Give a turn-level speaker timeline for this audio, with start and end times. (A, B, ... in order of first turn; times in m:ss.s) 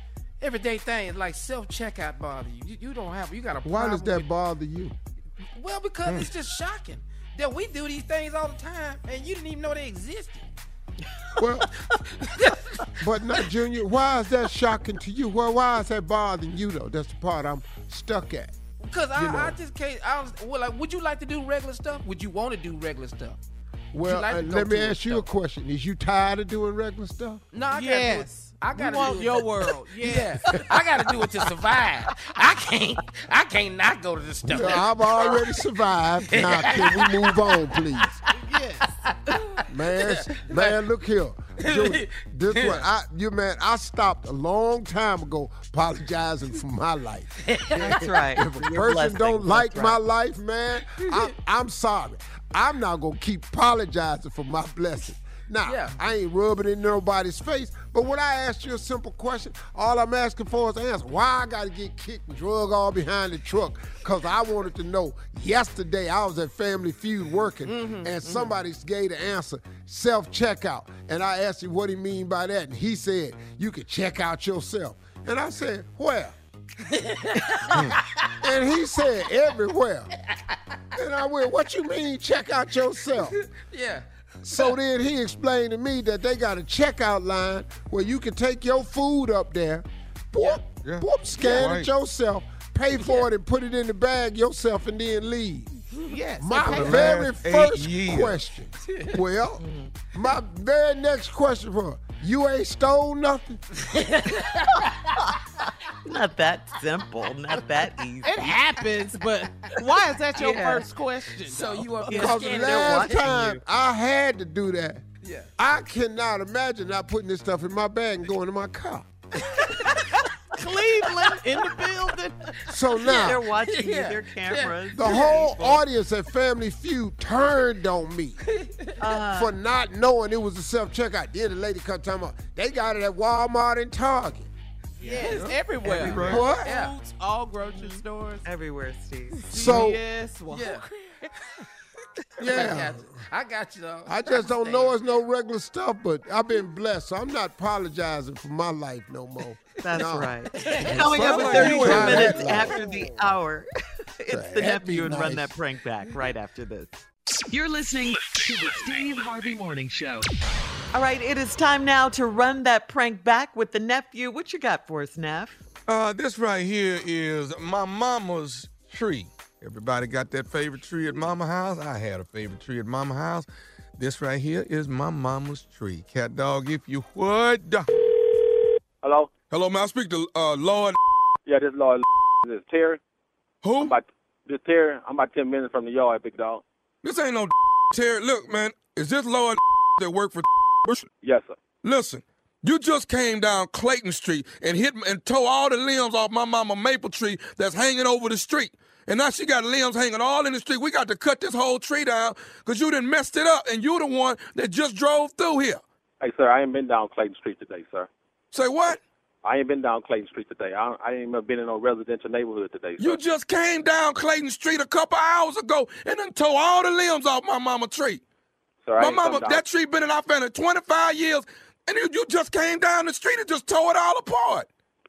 0:00.4-0:04.3 A
0:03.6-0:05.0 B
0:05.6-0:10.5 A
0:11.4-0:11.7 B
0:12.3-0:12.9 A
0:12.9-0:18.6 B
0:18.8-0:23.4 A
0:19.2-0:19.6 B
0:23.9-0:27.4 B
0:24.0-0:25.2 A
0:27.5-0:35.5 A
0:27.7-0:30.6 C
0:34.5-0:38.2 B
0:36.2-0:38.3 A
0:38.3-0:39.0 C
0:39.1-0:39.4 A
0:39.7-1:16.4 B
0:40.0-0:40.8 A
0:41.6-0:42.8 A
0:47.4-0:48.1 A
0:47.8-0:50.0 D
0:55.6-0:56.0 A
1:07.7-1:08.5 C
1:16.9-1:18.3 A
1:18.4-1:20.1 B
1:21.0-1:23.4 B
1:23.3-1:24.7 A
1:24.4-1:35.7 B
1:30.8-1:31.9 E
1:36.1-1:37.2 C
1:36.4-1:43.6 B
1:36.4-1:36.9 A
1:36.7-1:38.4 E
1:39.6-1:39.9 D
1:44.0-1:45.0 A
1:46.0-1:48.4 D
1:48.2-1:52.4 C
1:50.4-1:50.9 A
1:51.4-1:53.3 A
1:52.1-1:53.6 D
1:52.1-1:55.0 B
1:55.2-1:55.5 A
1:55.6-1:59.1 B
1:59.5-2:00.1 A
2:00.6-2:02.5 C
2:01.0-2:01.9 A
2:02.7-2:03.4 B
2:03.0-2:05.5 D
2:03.0-2:05.5 A
2:04.9-2:08.4 B
2:08.6-2:09.0 A
2:09.0-2:09.5 D
2:09.3-2:14.5 B
2:15.0-2:17.0 A
2:15.0-2:18.5 C
2:15.3-2:16.6 E
2:16.2-2:16.7 B
2:17.7-2:19.5 D
2:19.5-2:21.3 C
2:19.5-2:20.0 B
2:19.6-2:19.9 A
2:20.5-2:20.9 A
2:22.4-2:23.0 B
2:22.4-2:25.0 A
2:24.1-2:30.3 B
2:29.8-2:33.7 D
2:30.5-2:32.7 A
2:31.0-2:32.4 E
2:31.3-2:32.8 B
2:34.2-2:36.9 D
2:34.3-2:35.6 B
2:37.5-2:40.3 F
2:40.9-2:45.6 D
2:45.9-2:53.5 E
2:54.0-2:57.9 E
2:59.0-2:59.3 G
2:59.5-3:01.0 E
3:01.5-3:03.0 G
3:03.6-3:04.0 E
3:03.8-3:06.6 G
3:07.0-3:11.1 E
3:11.2-3:11.6 G
3:11.8-3:25.8 E
3:26.2-3:28.1 G
3:28.5-3:29.0 E
3:29.4-3:33.2 G
3:33.0-3:38.2 E
3:38.9-3:39.6 G
3:39.0-3:44.7 E